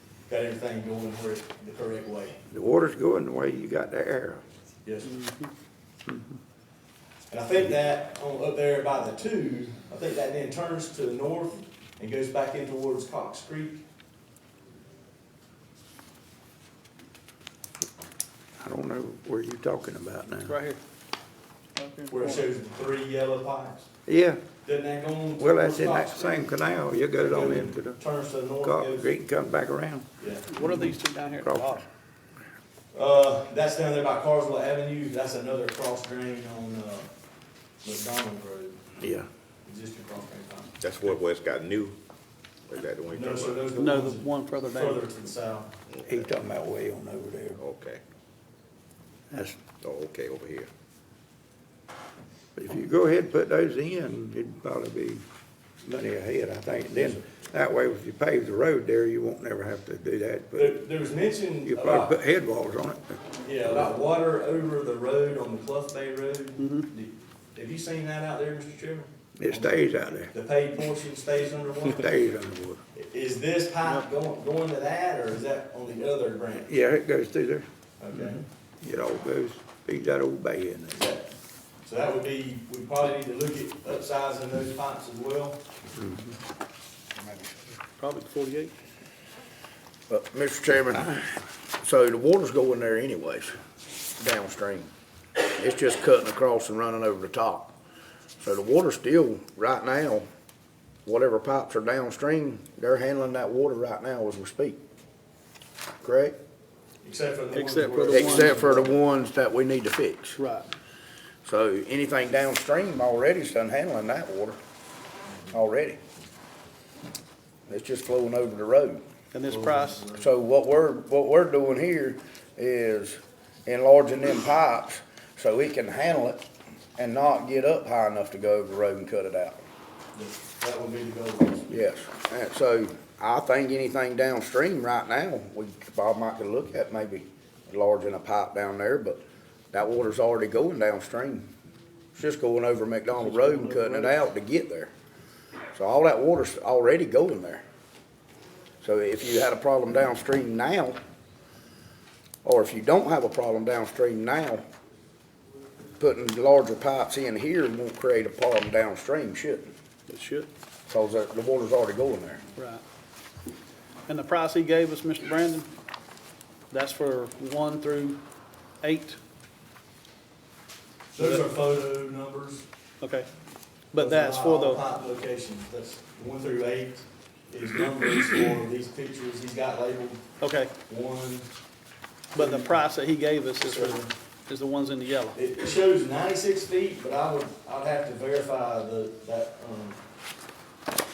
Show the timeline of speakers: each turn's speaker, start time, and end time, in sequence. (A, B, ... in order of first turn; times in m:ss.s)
0:00.3-0:02.4 A
0:02.5-0:04.4 B
0:04.8-0:05.1 A
0:05.0-0:05.5 C
0:06.1-0:06.4 B
0:07.3-0:13.8 A
0:18.6-0:20.6 B
0:20.5-0:20.8 C
0:21.8-0:22.5 C
0:22.1-0:23.9 A
0:24.0-0:24.4 B
0:24.6-0:26.4 A
0:25.4-0:28.0 B
0:27.2-0:29.1 A
0:28.6-0:30.1 B
0:30.2-0:30.5 A
0:30.5-0:31.8 C
0:31.3-0:31.9 B
0:32.9-0:37.1 A
0:37.8-0:38.8 A
0:39.0-0:39.2 B
0:39.6-0:40.7 A
0:40.8-0:42.0 D
0:42.7-0:43.7 D
0:43.1-0:45.7 A
0:43.8-0:45.0 C
0:45.9-0:46.3 D
0:46.0-0:47.6 B
0:47.6-0:48.0 D
0:49.3-0:49.7 B
0:49.7-0:50.7 D
0:52.6-0:55.2 B
0:55.8-1:00.8 B
1:00.6-1:02.2 A
1:01.6-1:03.2 B
1:03.4-1:12.1 A
1:06.6-1:06.9 C
1:09.4-1:10.3 B
1:11.9-1:12.8 B
1:12.9-1:16.7 A
1:16.6-1:17.7 B
1:18.0-1:18.4 A
1:18.8-1:21.1 B
1:20.9-1:21.3 A
1:21.8-1:25.6 A
1:25.9-1:26.3 B
1:27.2-1:27.5 E
1:28.0-1:28.7 C
1:30.1-1:33.6 E
1:34.2-1:37.7 E
1:38.4-1:40.2 E
1:41.0-1:44.8 E
1:46.0-1:46.3 E
1:47.0-1:49.0 A
1:47.5-1:48.6 C
1:48.1-1:50.4 E
1:50.4-1:50.7 C
1:51.4-1:54.6 E
1:55.5-1:56.0 E
1:57.7-1:59.0 E
1:59.3-2:00.0 C
1:59.4-2:00.3 A
2:00.2-2:06.4 E
2:07.0-2:09.6 E
2:10.2-2:11.7 A
2:11.7-2:19.2 E
2:19.7-2:21.5 E
2:22.2-2:24.9 E
2:23.2-2:24.2 C
2:25.7-2:27.6 E
2:28.8-2:31.0 E
2:32.4-2:34.6 E
2:36.0-2:39.7 E
2:40.1-2:40.5 C
2:40.9-2:42.4 E
2:42.6-2:42.8 C
2:44.1-2:45.7 C
2:46.7-2:48.2 C
2:48.8-2:49.2 C
2:51.2-2:52.7 A
2:53.0-2:53.3 C
2:53.9-2:54.8 C
2:54.0-3:00.3 A
3:00.4-3:00.7 C
3:00.9-3:01.5 A
3:02.3-3:05.4 C
3:02.4-3:02.8 A
3:03.6-3:04.1 A
3:05.3-3:10.0 A